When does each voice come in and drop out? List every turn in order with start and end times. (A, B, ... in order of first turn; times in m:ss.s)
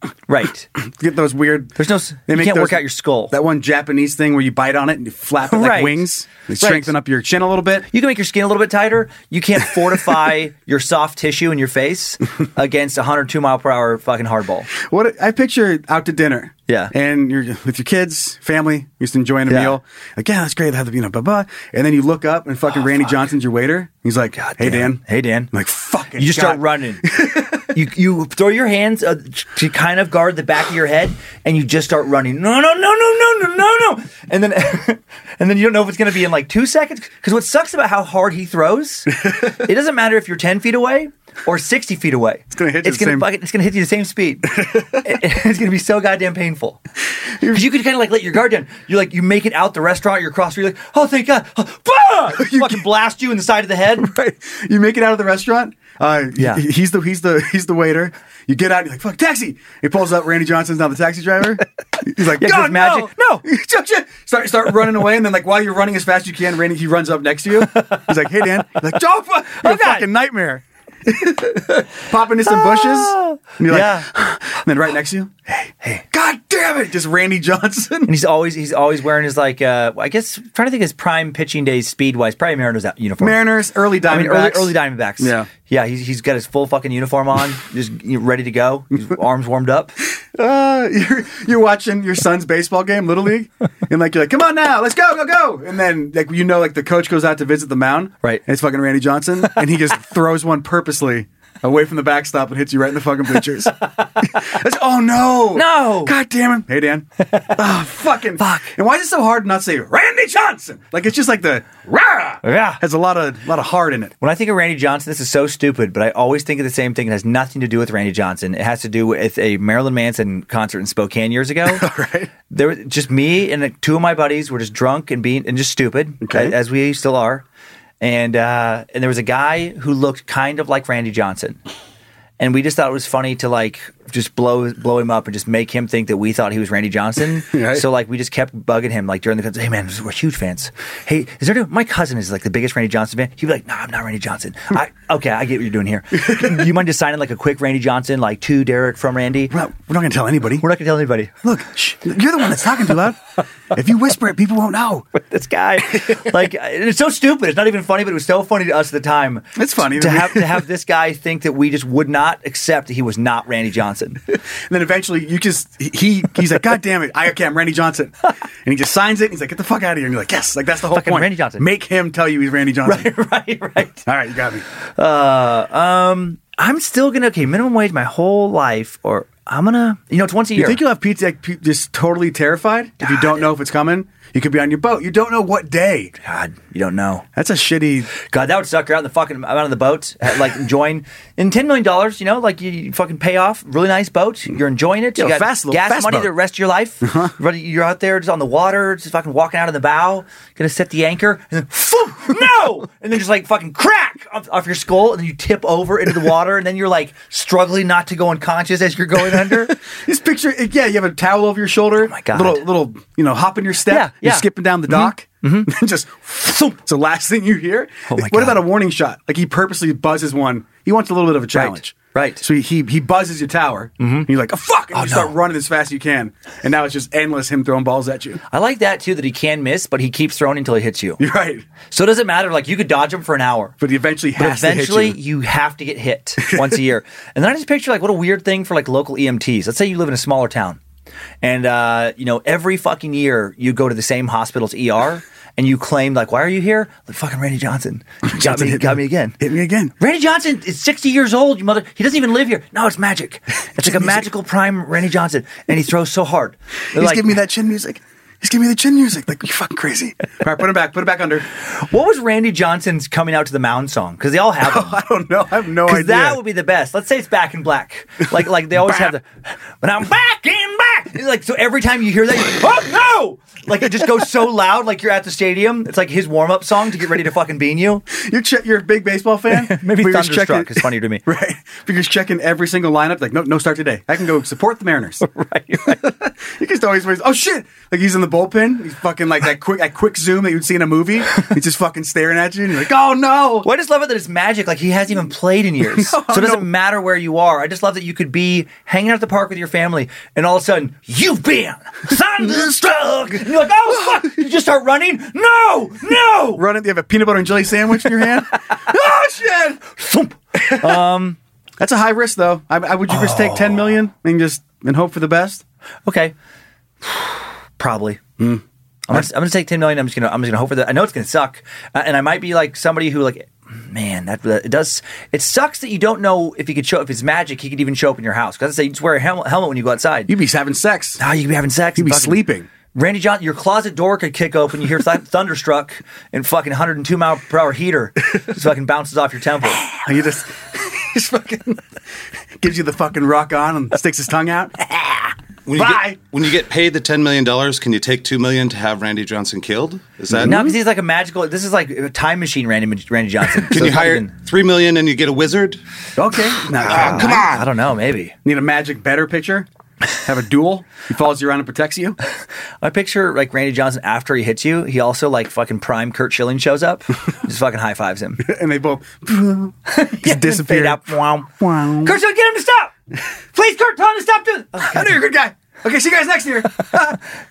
0:00.3-0:00.7 A
0:00.8-0:07.9 B
0:01.8-0:03.3 A
0:05.5-0:06.0 A
0:06.6-0:06.9 A
0:07.9-0:14.7 A
0:14.7-0:27.6 B
0:16.7-0:16.9 A
0:19.5-0:19.8 A
0:22.8-0:23.2 A
0:24.3-0:25.5 A
0:26.2-0:46.8 A
0:42.5-0:43.3 B
0:44.6-0:45.0 B
0:47.4-0:47.6 B
0:47.4-0:54.1 A
0:52.4-0:52.8 B
0:54.0-1:18.1 B
0:56.4-0:56.6 A
1:02.2-1:03.4 A
1:09.6-1:10.1 A
1:12.4-1:14.1 A
1:18.0-1:23.4 A
1:23.2-1:25.5 B
1:24.0-1:29.9 A
1:30.3-1:54.1 B
1:45.5-1:46.1 A
1:47.2-1:47.6 A
1:48.4-1:48.7 A
1:52.4-1:52.8 A
1:54.2-2:01.8 A
2:01.7-2:02.3 B
2:02.5-2:07.4 A
2:06.2-2:06.6 B
2:08.0-2:11.6 A
2:12.4-2:29.5 A
2:17.5-2:17.8 B
2:26.2-2:26.7 B
2:29.5-2:30.6 B
2:30.6-2:31.3 A
2:31.4-2:35.1 B
2:35.1-2:44.2 A
2:39.5-2:40.6 B
2:44.3-2:53.1 B
2:50.9-2:51.6 A
2:52.8-2:54.0 A
2:54.0-2:54.6 B
2:55.0-3:00.8 A
3:00.5-3:06.1 B
3:03.0-3:03.4 A
3:06.2-3:07.2 A
3:07.4-3:08.1 B
3:08.2-3:29.8 A
3:15.1-3:16.3 B
3:17.0-3:17.3 B
3:29.3-3:48.4 B
3:32.0-3:32.6 A
3:33.9-3:35.7 A
3:36.4-3:36.7 A
3:38.1-3:38.6 A
3:41.5-3:42.4 A
3:44.0-3:44.3 A
3:44.9-3:45.3 A
3:48.5-3:51.2 A
3:51.2-3:51.6 B
3:51.9-3:53.7 A
3:53.8-3:55.2 B
3:54.4-4:00.8 A
3:56.5-3:56.8 B
4:01.4-4:09.4 A
4:08.2-4:09.9 B
4:10.0-4:17.3 A
4:13.8-4:14.2 B
4:16.9-4:21.4 B
4:21.6-4:25.0 A
4:24.6-4:26.4 B
4:25.8-4:29.3 A
4:29.8-4:38.0 A
4:38.1-4:45.2 B
4:39.5-4:41.2 A
4:45.2-4:46.1 A
4:46.0-4:53.7 B
4:53.6-5:06.6 A
4:55.9-4:56.7 B
5:06.5-5:09.8 B
5:08.2-5:09.0 A
5:09.8-5:11.4 A
5:10.5-5:11.0 B
5:11.8-5:15.6 B
5:13.1-5:14.0 A
5:16.0-5:16.3 A
5:17.0-5:18.2 A
5:18.4-5:19.2 B
5:19.1-5:30.3 A
5:30.3-5:31.2 B
5:31.2-5:32.4 A
5:32.0-5:32.7 B
5:32.9-5:39.9 A
5:39.8-5:41.8 B
5:42.6-5:44.8 B
5:45.7-5:50.6 C
5:50.3-5:50.8 B
5:50.4-5:54.3 A
5:53.7-5:55.8 C
5:56.2-5:57.6 B
5:56.8-5:58.3 A
5:57.0-5:57.6 C
5:58.4-6:02.2 B
6:02.8-6:08.4 A
6:08.4-6:12.2 B
6:09.9-6:11.5 A
6:12.0-6:12.9 A
6:13.5-6:15.2 A
6:14.8-6:17.2 B